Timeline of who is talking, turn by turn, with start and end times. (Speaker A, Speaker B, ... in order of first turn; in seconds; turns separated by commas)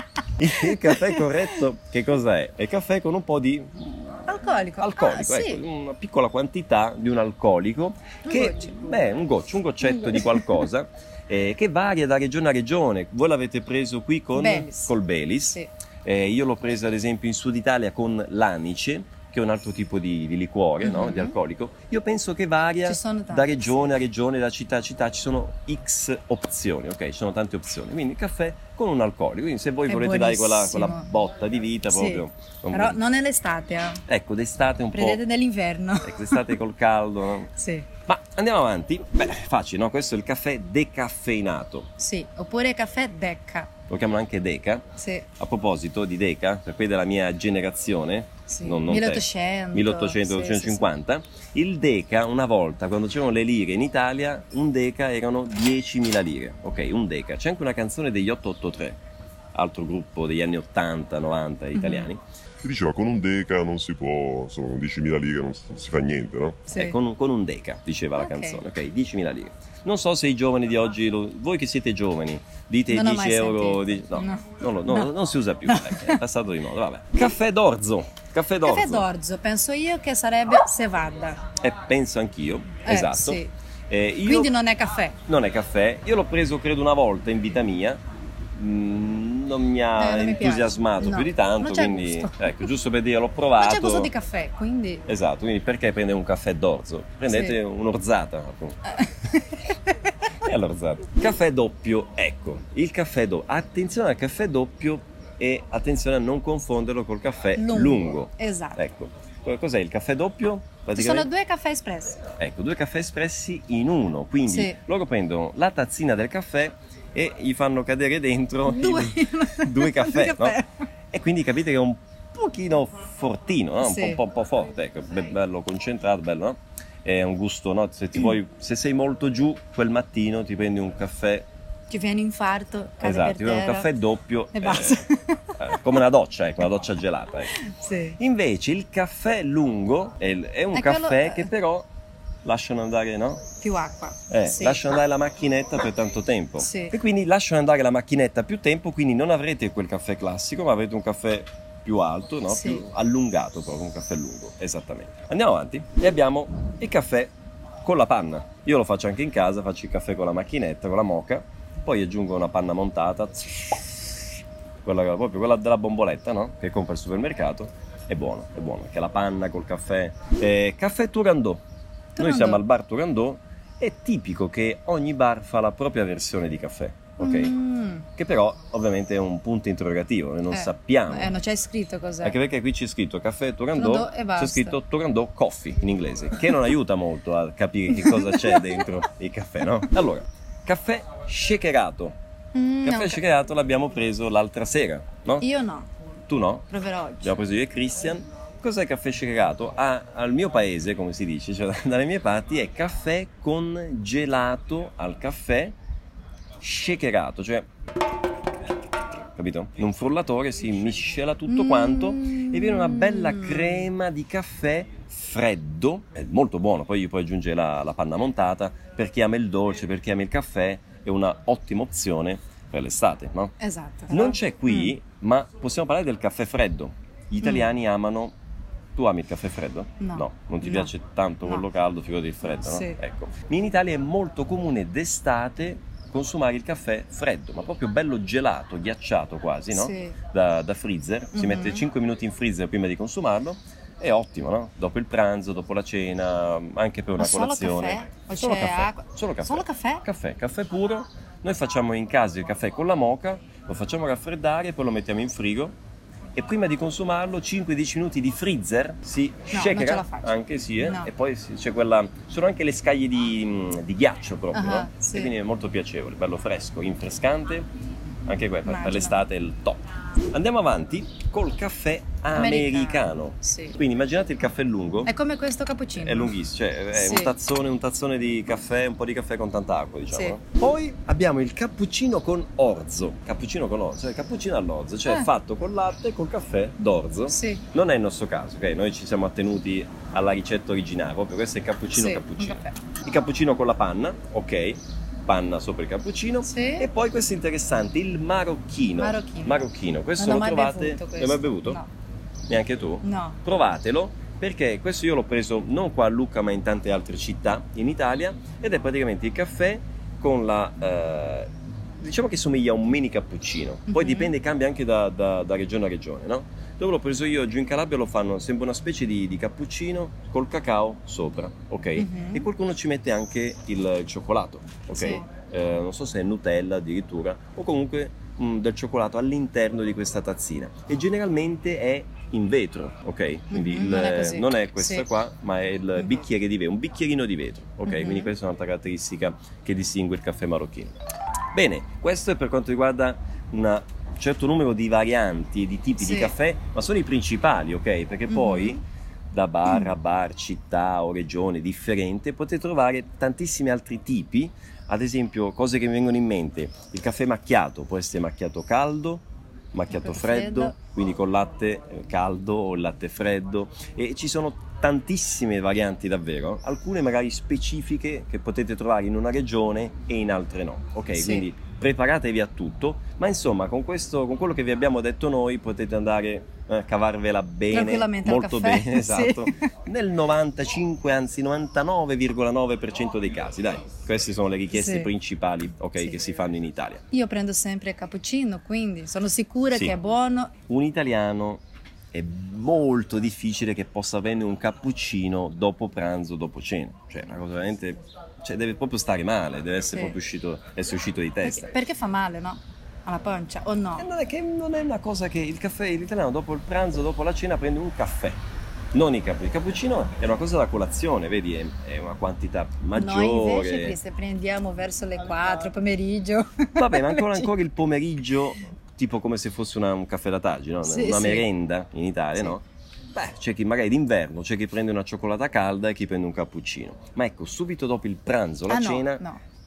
Speaker A: 0.4-33.0, Speaker B: 0.7-1.2, Speaker B: 4.3-5.6, Speaker B: 8.3-9.0, Speaker B: 9.8-10.6, Speaker B: 14.3-14.9, Speaker B: 20.8-21.4, Speaker B: 22.8-23.9, Speaker B: 29.9-31.0, Speaker B: 31.9-34.0, Speaker A: 34.1-35.2, Speaker B: 34.9-36.5, Speaker A: 36.0-37.5, Speaker B: 37.6-37.9, Speaker A: 38.1-41.9, Speaker B: 42.0-43.7, Speaker A: 43.9-44.9, Speaker B: 45.0-45.3, Speaker A: 45.4-59.0, Speaker B: 48.5-50.9, Speaker A: 59.5-62.2, Speaker B: 61.8-62.1, Speaker C: 62.6-66.6, Speaker B: 66.7-67.0, Speaker A: 66.7-79.1, Speaker B: 68.2-68.6, Speaker B: 72.9-75.1, Speaker B: 75.7-76.2, Speaker B: 78.7-81.4, Speaker A: 81.6-84.5, Speaker B: 82.8-83.5, Speaker B: 84.2-85.2, Speaker A: 85.3-88.0, Speaker A: 88.5-94.1, Speaker B: 90.0-92.6, Speaker B: 93.6-95.1, Speaker A: 95.1-98.8, Speaker B: 97.3-97.6, Speaker B: 99.0-99.9, Speaker A: 100.4-111.3, Speaker B: 107.6-108.8, Speaker B: 111.0-112.2, Speaker A: 112.4-120.6, Speaker B: 114.5-114.8, Speaker B: 118.7-120.7, Speaker A: 121.1-131.4, Speaker B: 123.8-124.2, Speaker B: 131.9-133.9, Speaker A: 133.0-135.1, Speaker B: 134.6-135.8, Speaker A: 135.6-137.6, Speaker B: 137.6-138.2, Speaker A: 138.2-141.9, Speaker B: 140.7-141.5, Speaker A: 142.4-143.4, Speaker B: 143.6-144.9, Speaker A: 144.3-157.3, Speaker B: 146.6-147.0, Speaker B: 152.5-152.8, Speaker A: 157.8-163.9, Speaker A: 164.8-171.6, Speaker B: 172.2-172.6, Speaker A: 172.2-177.6, Speaker B: 177.2-178.1, Speaker A: 178.1-181.3, Speaker B: 180.5-182.4, Speaker A: 182.2-192.2, Speaker B: 183.7-184.8, Speaker B: 187.9-188.9, Speaker B: 192.5-193.2, Speaker A: 192.8-195.5, Speaker B: 195.4-195.9, Speaker A: 196.3-196.7, Speaker B: 196.7-197.4, Speaker A: 197.2-205.8, Speaker A: 206.6-207.7, Speaker A: 209.3-223.5, Speaker B: 211.5-213.8, Speaker B: 223.6-224.9, Speaker A: 224.1-228.3, Speaker B: 227.4-227.7, Speaker A: 229.0-255.8, Speaker B: 230.0-230.9, Speaker B: 232.6-233.0, Speaker B: 239.7-240.2, Speaker B: 241.3-241.8, Speaker B: 247.2-250.1, Speaker A: 256.4-267.7, Speaker B: 259.5-261.1, Speaker B: 264.5-265.4, Speaker A: 268.3-275.1, Speaker B: 268.7-269.2, Speaker B: 272.3-273.8, Speaker B: 275.1-276.4, Speaker A: 276.0-301.8, Speaker B: 276.9-277.4, Speaker B: 280.1-280.4, Speaker B: 287.3-287.7, Speaker B: 291.9-292.8, Speaker B: 296.4-296.9, Speaker B: 299.0-301.9, Speaker A: 302.5-341.0, Speaker B: 303.0-303.4, Speaker B: 313.9-314.3, Speaker B: 322.0-322.5, Speaker B: 324.9-325.2, Speaker B: 333.5-335.1, Speaker B: 337.9-338.3, Speaker A: 341.5-387.0, Speaker B: 346.0-346.3, Speaker B: 348.3-348.8, Speaker B: 359.9-360.8, Speaker B: 371.1-371.5, Speaker B: 377.7-379.7, Speaker B: 384.7-385.1, Speaker B: 387.1-390.5, Speaker A: 390.7-391.6, Speaker A: 392.1-401.7, Speaker B: 401.4-404.1, Speaker A: 404.0-408.4, Speaker A: 408.9-414.0, Speaker B: 412.9-417.5, Speaker A: 416.8-429.2, Speaker B: 420.8-421.5, Speaker B: 428.7-429.4